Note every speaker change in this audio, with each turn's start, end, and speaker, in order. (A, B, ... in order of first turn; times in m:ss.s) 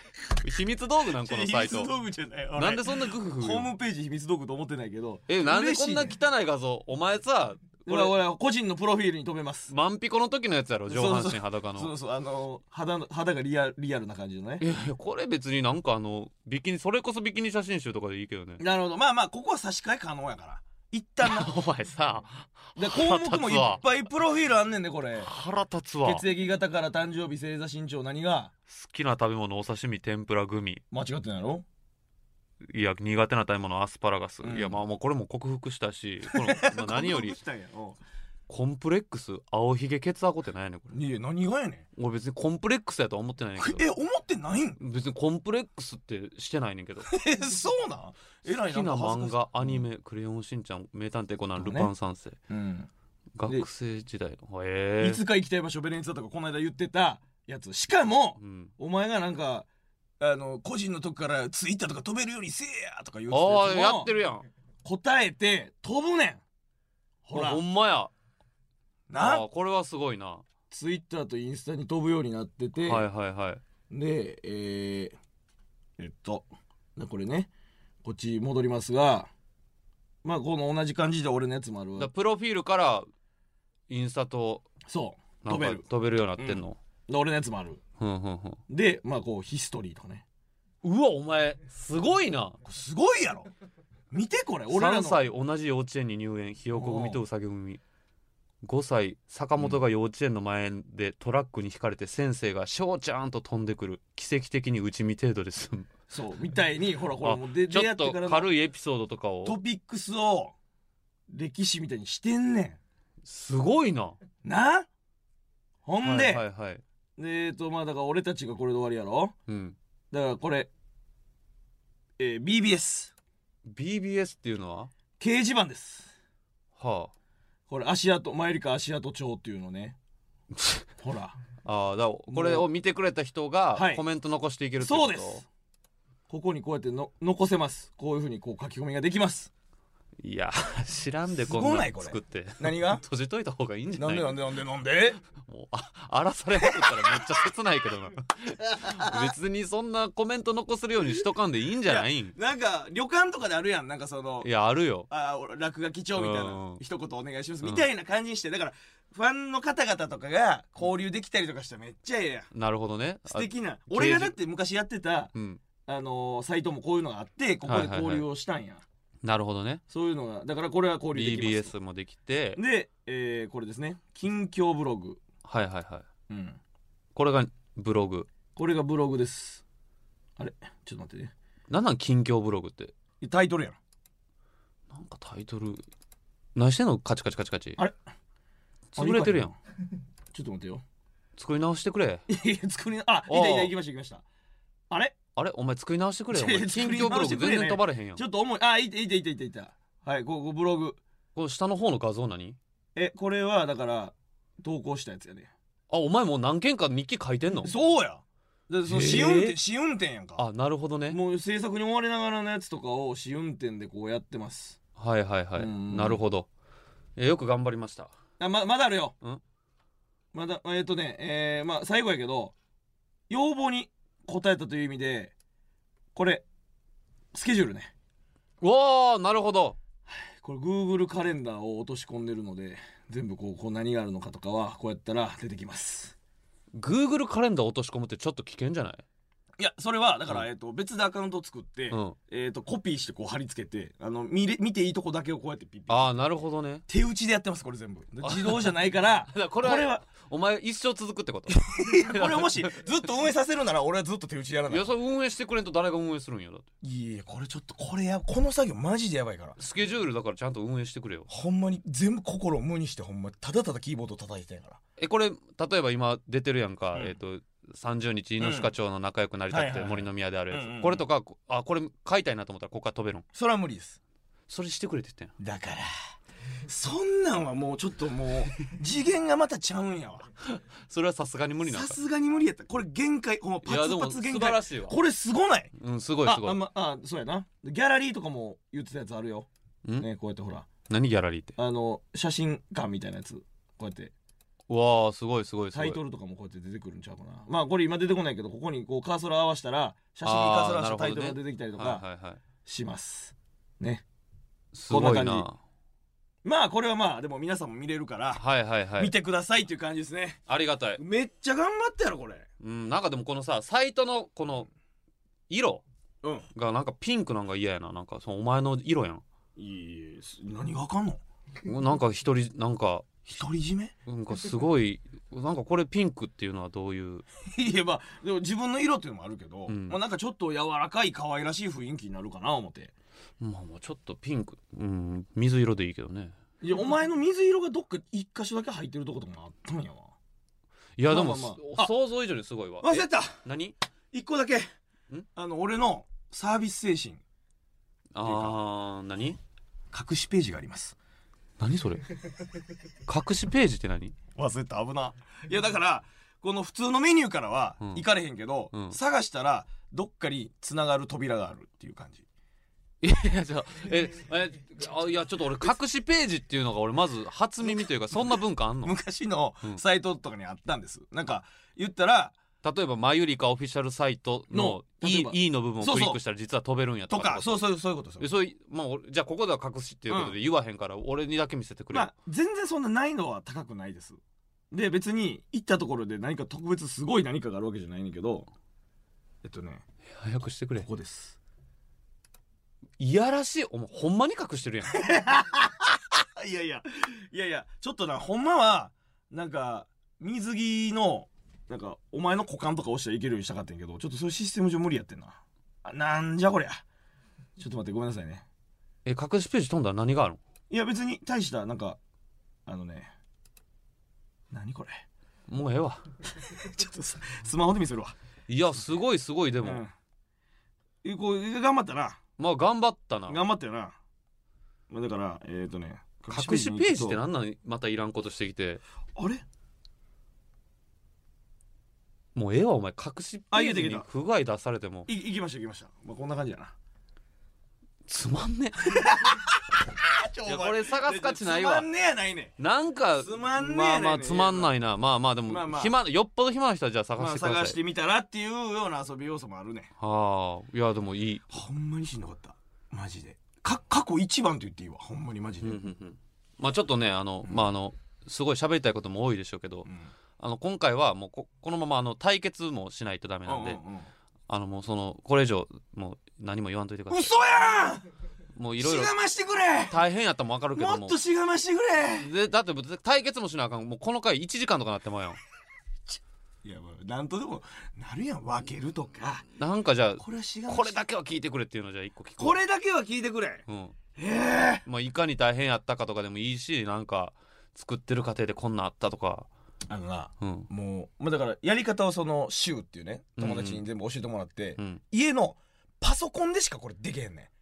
0:00.4-0:01.9 A
0:01.2-0:06.2 B
0:02.6-0:03.7 A
0:05.3-0:08.2 A
0:07.9-0:09.7 B
0:09.7-0:11.9 A
0:10.9-0:14.6 B
0:14.6-0:18.6 A
0:18.6-0:21.5 B
0:21.2-0:23.8 A
0:22.8-0:25.3 B
0:25.2-0:26.2 A
0:26.0-0:28.5 B
0:28.7-0:30.8 A
0:30.9-0:31.6 B
0:32.7-0:37.4 A
0:34.4-0:34.8 B
0:36.3-0:38.0 B
0:38.5-0:40.9 A
0:40.9-0:41.8 B
0:42.0-0:43.8 A
0:43.6-0:44.8 B
0:44.8-0:47.1 A
0:47.1-0:49.8 B
0:48.4-0:52.4 A
0:51.6-0:51.9 B
0:52.5-0:52.9 B
0:53.4-0:55.2 A
0:55.0-0:59.6 B
0:58.4-0:58.7 A
1:00.2-1:04.1 B
1:03.3-1:04.4 A
1:04.8-1:06.4 B
1:07.2-1:07.6 B
1:07.3-1:08.1 A
1:09.1-1:09.4 B
1:09.2-1:10.4 A
1:10.7-1:13.0 B
1:12.8-1:13.6 A
1:13.9-1:15.2 B
1:16.0-1:17.5 B
1:18.0-1:19.3 B
1:20.2-1:22.1 B
1:22.0-1:23.1 A
1:23.9-1:24.6 A
1:24.8-1:25.8 B
1:25.4-1:26.8 A
1:26.4-1:27.8 B
1:28.0-1:28.6 A
1:28.7-1:30.2 B
1:30.8-1:32.6 A
1:32.6-1:33.5 B
1:34.1-1:35.2 B
1:34.7-1:37.8 A
1:36.7-1:37.2 B
1:38.6-1:45.9 A
1:46.1-1:48.5 B
1:47.2-1:49.6 A
1:49.4-1:50.5 B
1:51.3-1:52.8 B
1:53.2-1:54.2 A
1:54.4-1:54.9 B
1:55.8-1:56.4 B
1:56.0-1:56.8 A
1:57.2-1:59.3 B
1:59.5-1:59.8 A
2:00.1-2:00.7 B
2:02.2-2:03.1 B
2:03.7-2:04.9 A
2:05.2-2:06.1 B
2:06.8-2:07.1 A
2:07.7-2:10.0 B
2:10.5-2:10.8 A
2:11.0-2:11.4 B
2:11.6-2:15.4 A
2:12.3-2:12.7 B
2:13.7-2:14.0 B
2:14.8-2:15.4 B
2:16.3-2:19.5 B
2:20.2-2:24.4 A
2:21.5-2:23.0 B
2:24.0-2:25.2 B
2:25.4-2:32.4 A
2:26.6-2:27.3 B
2:28.6-2:29.3 B
2:31.8-2:34.5 B
2:34.4-2:35.1 A
2:35.1-2:42.5 B
2:36.1-2:36.8 A
2:42.5-2:44.4 A
2:43.3-2:45.3 B
2:45.3-2:45.6 A
2:45.9-2:48.8 B
2:47.6-2:48.3 A
2:49.2-2:49.8 A
2:49.9-2:51.7 B
2:51.1-2:52.6 A
2:52.6-2:55.2 B
2:55.4-2:56.0 A
2:56.3-2:56.6 B
2:57.1-2:58.3 A
2:58.6-2:59.6 B
3:00.4-3:01.3 B
3:01.7-3:02.9 A
3:03.2-3:03.8 B
3:04.9-3:05.8 A
3:06.5-3:07.8 A
3:08.9-3:09.5 A
3:09.0-3:09.6 B
3:10.3-3:10.8 B
3:11.4-3:12.2 A
3:12.3-3:14.2 B
3:13.3-3:13.7 A
3:14.9-3:15.2 B
3:15.4-3:18.2 A
3:16.3-3:21.0 B
3:21.3-3:22.6 A
3:22.9-3:25.5 B
3:25.9-3:27.7 A
3:27.6-3:30.4 B
3:28.8-3:29.6 A
3:30.4-3:31.2 A
3:31.1-3:34.8 B
3:35.0-3:36.5 A
3:35.6-3:36.2 B
3:37.2-3:38.1 A
3:38.4-3:39.1 B
3:40.3-3:42.5 B
3:43.3-3:45.3 B
3:46.1-3:46.4 B
3:47.3-3:47.9 B
3:48.6-3:49.8 A
3:50.1-3:56.1 B
3:56.7-3:59.0 A
3:59.6-4:06.1 B
4:01.9-4:02.2 A
4:05.9-4:06.8 A
4:06.9-4:10.0 B
4:08.2-4:08.8 A
4:09.3-4:12.8 A
4:11.5-4:14.9 B
4:14.7-4:16.6 A
4:16.8-4:19.6 B
4:19.6-4:21.3 A
4:21.3-4:24.8 B
4:25.0-4:33.2 A
4:28.4-4:28.7 B
4:29.5-4:31.0 B
4:33.3-4:34.0 B
4:34.5-4:35.3 A
4:35.4-4:35.9 B
4:36.6-4:40.3 B
4:40.4-4:42.0 A
4:41.6-4:45.7 B
4:43.6-4:45.0 A
4:45.8-4:46.6 A
4:46.2-4:49.5 B
4:50.0-4:50.7 B
4:50.9-4:51.6 A
4:51.6-4:54.1 B
4:54.7-4:56.0 A
4:55.7-5:02.0 B
5:00.2-5:02.4 A
5:02.6-5:04.0 B
5:04.7-5:05.6 A
5:04.9-5:05.5 B
5:06.4-5:08.4 B
5:08.3-5:09.1 A
5:09.0-5:12.5 B
5:10.5-5:11.0 A
5:12.6-5:14.7 A
5:15.5-5:15.8 A
5:16.5-5:19.2 A
5:19.6-5:21.2 B
5:21.6-5:23.1 A
5:23.2-5:23.9 B
5:24.0-5:27.2 A
5:27.4-5:32.9 B
5:29.7-5:30.0 A
5:33.4-5:36.4 A
5:36.6-5:40.1 B
5:41.0-5:43.8 A
5:41.1-5:41.9 B
5:42.8-5:43.4 B
5:44.1-5:44.7 B
5:45.3-5:47.2 B
5:48.1-5:49.4 A
5:48.2-5:48.6 B
5:49.9-5:51.0 B
5:51.6-5:52.2 A
5:53.0-5:54.2 A
5:54.4-6:02.2 B
5:58.7-5:59.0 A
6:03.0-6:09.0 A
6:07.6-6:12.4 B
6:12.6-6:17.6 A
6:14.5-6:16.2 B
6:17.1-6:18.3 B
6:18.2-6:22.1 A
6:20.1-6:20.4 B
6:21.9-6:24.2 B
6:24.7-6:28.5 B
6:29.4-6:29.8 B
6:30.1-6:30.9 A
6:30.8-6:31.4 B
6:33.0-6:35.1 A
6:34.9-6:46.8 B
6:47.6-6:48.4 B
6:49.0-6:50.4 A
6:50.7-6:52.0 B
6:52.6-6:53.1 B
6:54.5-6:55.0 B
6:55.5-6:56.0 A
6:56.4-6:58.1 B
6:58.5-6:59.8 A
6:59.6-6:59.9 B
7:01.0-7:02.2 B
7:02.4-7:03.4 A
7:03.3-7:04.0 B
7:04.9-7:07.2 B
7:06.3-7:08.8 A
7:09.2-7:09.4 B
7:12.3-7:15.1 A
7:13.5-7:14.1 B
7:15.1-7:16.7 B
7:18.1-7:19.0 A
7:18.8-7:22.5 B
7:20.4-7:21.9 A
7:22.6-7:27.8 A
7:23.2-7:24.7 B
7:25.5-7:26.0 B
7:27.2-7:29.9 B
7:30.0-7:31.4 A
7:31.5-7:35.8 B
7:35.6-7:43.8 A
7:39.8-7:40.1 B
7:43.4-7:44.1 B
7:44.5-7:47.4 A
7:47.1-7:48.1 B
7:48.5-7:49.1 A
7:48.8-7:50.0 B
7:49.9-7:51.2 A
7:50.7-7:52.3 B
7:52.2-7:55.4 A
7:56.1-7:59.5 B
7:59.6-8:02.6 A
8:00.2-8:01.0 B
8:02.4-8:04.8 B
8:03.7-8:04.0 A
8:04.8-8:09.5 A
8:09.9-8:17.5 B
8:10.4-8:10.7 A
8:13.4-8:13.8 A